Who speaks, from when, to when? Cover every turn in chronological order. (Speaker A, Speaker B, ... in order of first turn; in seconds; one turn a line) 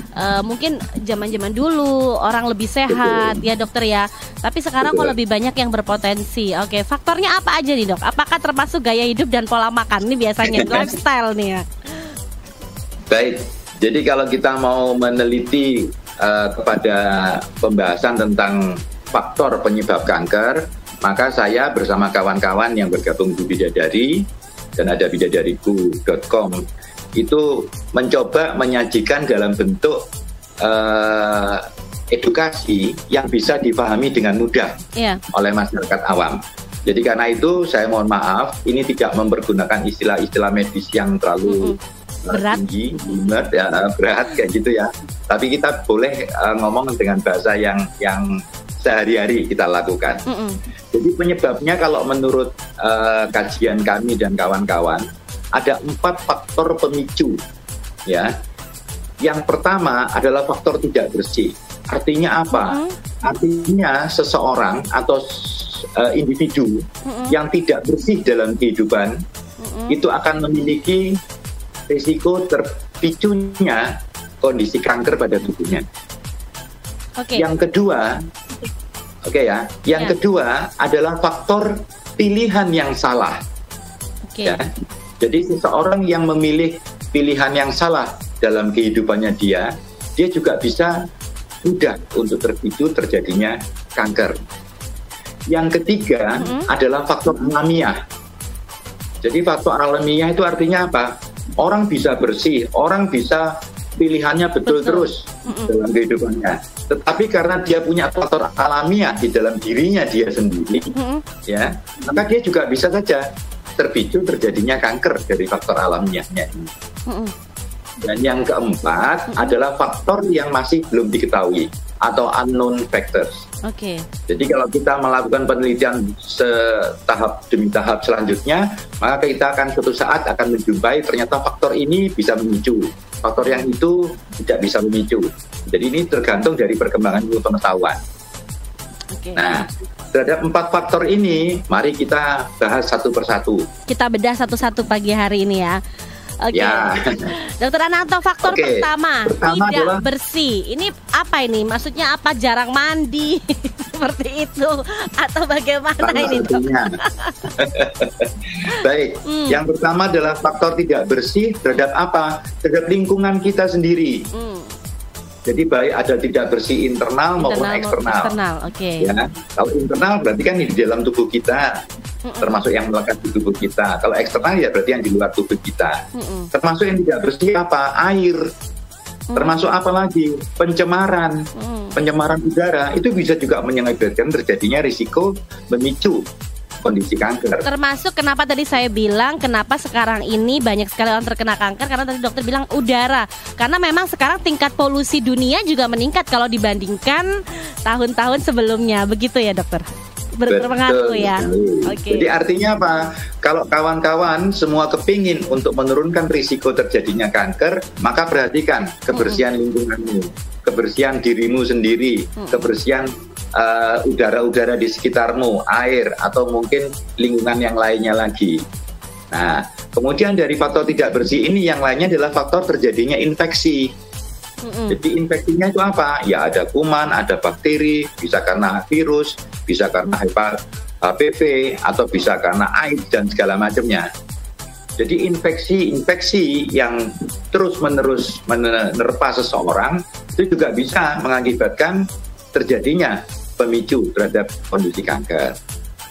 Speaker A: 0.2-11.7
Speaker B: 2.9-3.4
Speaker B: 4.8-5.2
Speaker B: 10.4-10.9
Speaker B: 13.1-24.2
Speaker B: 24.8-26.6
Speaker B: 27.2-30.0
Speaker B: 30.6-34.8
Speaker A: 35.0-35.2
Speaker B: 35.3-50.2
Speaker A: 41.5-41.8
Speaker A: 42.3-42.6
Speaker A: 50.3-50.6
Speaker B: 50.9-55.0
Speaker B: 55.6-57.4
Speaker B: 59.2-69.2
Speaker A: 62.5-62.9
Speaker A: 67.0-67.4
Speaker A: 69.6-70.0
Speaker B: 69.9-71.1
Speaker B: 71.9-73.8
Speaker B: 74.4-75.8
Speaker A: 77.2-77.5
Speaker B: 77.3-78.2
Speaker B: 79.3-83.4
Speaker A: 84.3-84.6
Speaker B: 84.4-84.7
Speaker B: 85.2-91.0
Speaker B: 91.7-94.4
Speaker B: 95.5-98.0
Speaker A: 96.4-96.7
Speaker B: 99.2-110.9
Speaker A: 104.7-105.7
Speaker A: 110.9-111.2
Speaker B: 111.5-113.3
Speaker B: 113.8-116.7
Speaker A: 117.1-117.3
Speaker B: 118.0-123.4
Speaker A: 123.6-124.0
Speaker B: 124.3-138.0
Speaker A: 133.4-133.7
Speaker A: 139.1-139.6
Speaker B: 139.3-143.7
Speaker A: 143.9-145.8
Speaker A: 146.4-146.9
Speaker B: 146.5-147.3
Speaker A: 147.6-157.5
Speaker B: 148.4-150.0
Speaker B: 156.0-156.9
Speaker B: 157.5-164.3
Speaker A: 158.7-159.6
Speaker A: 164.3-164.8
Speaker B: 165.5-168.4
Speaker A: 167.4-169.1
Speaker B: 169.0-171.8
Speaker A: 172.2-172.7
Speaker B: 172.4-176.0
Speaker A: 176.2-176.5
Speaker B: 176.5-178.4
Speaker A: 179.3-179.7
Speaker B: 179.3-186.2
Speaker A: 181.6-182.0
Speaker B: 186.8-187.7
Speaker A: 187.6-197.3
Speaker A: 197.8-202.3
Speaker B: 200.5-218.6
Speaker A: 209.1-209.4
Speaker A: 212.4-212.7
Speaker B: 219.3-223.9
Speaker A: 224.6-225.0
Speaker B: 224.9-234.1
Speaker B: 235.0-242.0
Speaker B: 242.5-245.6